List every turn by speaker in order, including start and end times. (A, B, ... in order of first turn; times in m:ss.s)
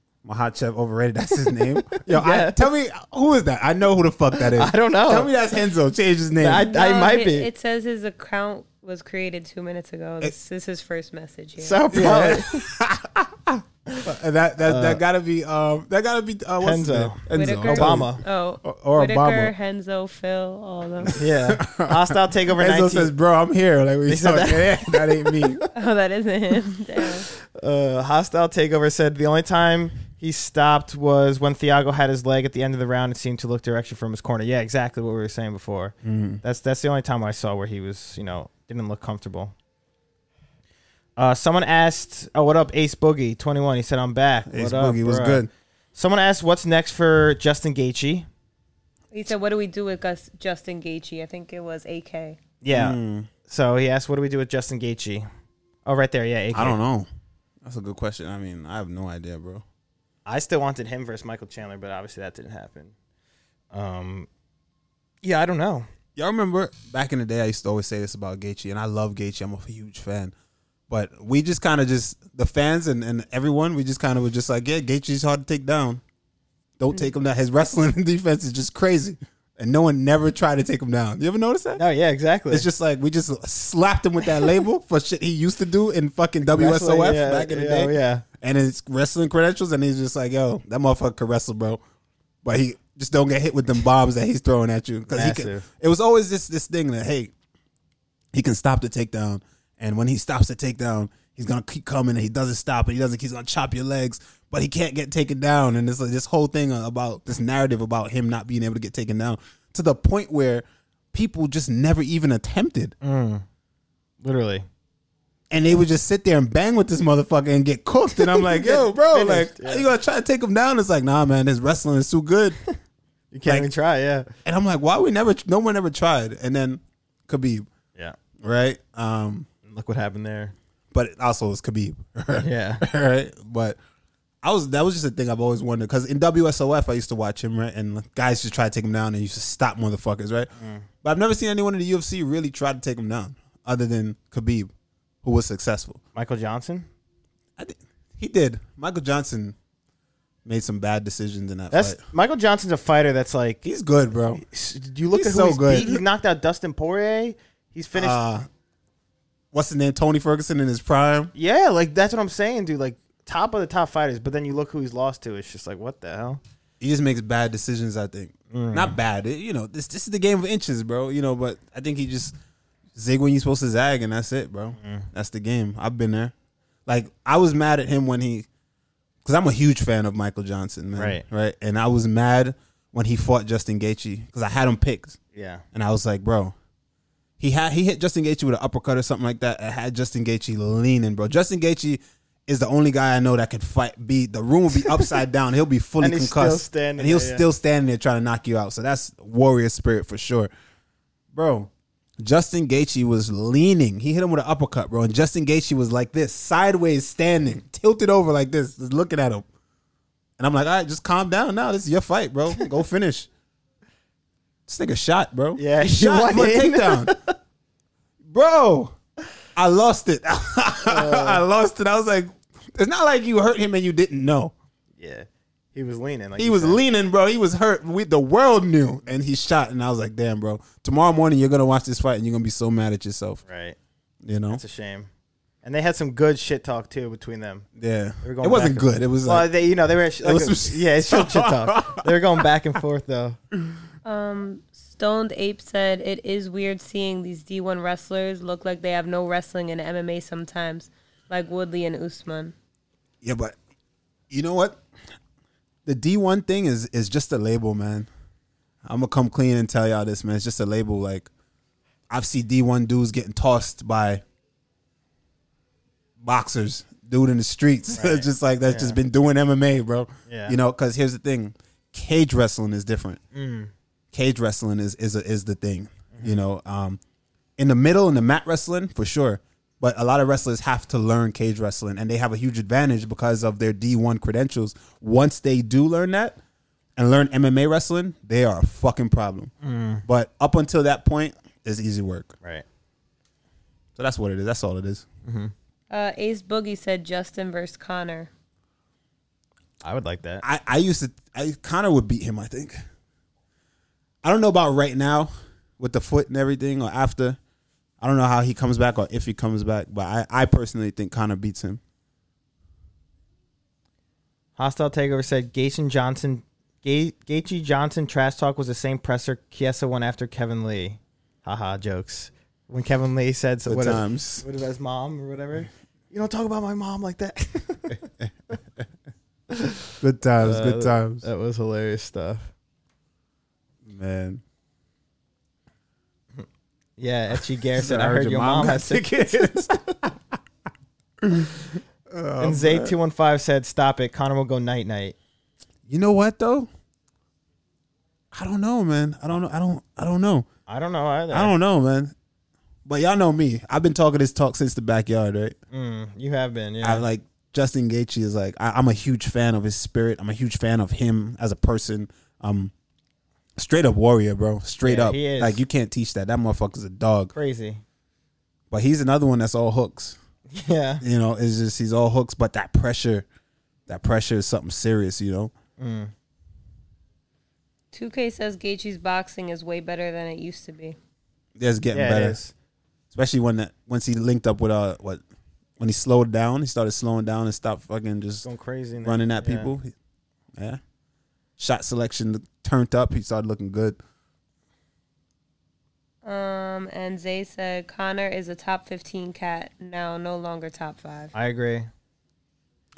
0:00.2-0:06.7 A
0:01.5-0:02.7 B
0:04.4-0:05.3 B
0:06.4-0:07.5 B
0:06.7-0:12.2 C
0:11.6-0:12.7 B
0:11.9-0:18.1 A
0:14.6-0:15.0 B
0:16.6-0:18.2 B
0:17.3-0:21.2 C
0:18.6-0:19.5 A
0:21.0-0:25.6 A
0:21.2-0:23.1 B
0:24.1-0:25.7 B
0:25.7-0:27.3 C
0:27.3-0:39.5 B
0:36.0-0:36.4 A
0:41.2-0:48.3 B
0:44.5-0:45.5 A
0:49.1-0:52.4 C
0:52.6-0:55.3 B
0:52.7-0:53.3 A
0:55.8-0:56.8 B
0:56.5-0:57.1 A
0:57.6-0:59.6 A
1:00.3-1:02.9 B
1:03.7-1:04.3 B
1:05.2-1:05.9 B
1:06.2-1:10.3 A
1:10.9-1:16.0 A
1:16.8-1:21.8 A
1:21.8-1:22.7 B
1:22.5-1:31.8 A
1:26.5-1:28.2 B
1:32.4-1:37.3 A
1:35.1-1:35.7 B
1:38.3-1:53.0 A
1:53.0-1:53.4 B
1:54.2-1:54.6 B
1:55.5-2:02.6 A
1:58.1-1:59.9 B
2:03.3-2:04.3 B
2:04.4-2:07.7 A
2:08.4-2:09.5 A
2:09.7-2:10.6 B
2:10.9-2:13.8 A
2:12.4-2:12.8 B
2:14.4-2:20.5 A
2:20.6-2:20.9 B
2:21.0-2:24.7 A
2:25.2-2:26.0 A
2:26.2-2:26.9 B
2:27.6-2:29.6 A
2:30.4-2:32.0 A
2:31.7-2:33.6 B
2:33.6-2:34.4 A
2:34.4-2:38.2 B
2:35.1-2:36.0 A
2:37.9-2:38.5 A
2:39.5-2:41.3 A
2:41.3-2:46.4 B
2:46.8-2:52.4 A
2:48.5-2:49.0 B
2:53.0-2:56.3 A
2:54.8-2:55.1 B
2:56.9-2:58.5 A
2:59.2-3:05.2 A
3:01.0-3:01.2 B
3:05.3-3:05.6 B
3:05.7-3:06.6 A
3:07.4-3:20.5 A
3:16.0-3:17.4 B
3:21.3-3:29.5 A
3:30.4-3:33.3 A
3:34.7-3:37.1 A
3:35.6-3:37.3 B
3:38.3-3:39.0 A
3:39.6-3:44.5 A
3:40.8-3:41.4 B
3:45.0-3:46.8 B
3:46.4-3:53.4 A
3:53.5-3:53.8 B
3:54.2-3:54.6 A
3:54.5-3:55.1 B
3:55.6-3:57.7 B
3:57.8-3:59.5 A
3:58.2-4:03.4 B
4:00.2-4:02.1 A
4:04.0-4:12.5 C
4:13.2-4:13.6 A
4:14.3-4:14.8 A
4:15.9-4:18.1 A
4:18.8-4:21.3 A
4:22.1-4:24.2 A
4:26.2-4:33.2 A
4:27.9-4:29.0 B
4:30.3-4:30.6 B
4:33.3-4:33.7 B
4:34.1-4:37.0 A
4:36.1-4:36.4 B
4:37.6-4:46.4 A
4:47.0-4:49.5 A
4:49.6-4:50.0 B
4:50.1-4:52.4 A
4:54.0-4:55.0 A
4:55.2-4:55.5 B
4:55.9-4:58.3 C
4:59.8-5:00.4 B
5:00.4-5:02.8 A
5:04.2-5:07.4 A
5:08.0-5:11.8 A
5:14.6-5:28.1 B
5:23.6-5:24.4 A
5:29.5-5:32.5 B
5:30.0-5:31.2 A
5:33.8-5:34.4 A
5:37.0-5:39.6 B
5:37.4-5:40.2 A
5:41.2-5:43.0 A
5:42.4-5:45.2 B
5:45.9-5:46.7 A
5:48.3-5:50.5 A
5:50.7-5:51.5 B
5:51.3-5:52.1 A
5:52.9-5:55.6 A
5:55.7-5:57.0 B
5:56.8-6:02.7 A
6:03.6-6:07.3 A
6:04.8-6:05.6 B
6:07.3-6:07.8 B
6:08.7-6:10.2 A
6:10.5-6:11.0 B
6:11.0-6:13.3 A
6:13.9-6:15.5 A
6:15.8-6:16.1 B
6:17.9-6:21.0 C
6:21.6-6:22.4 A
6:21.9-6:22.5 B
6:23.1-6:25.2 A
6:25.8-6:28.5 A
6:28.4-6:29.7 B
6:29.0-6:29.9 A
6:31.6-6:34.0 A
6:36.2-6:41.3 C
6:41.3-6:41.9 B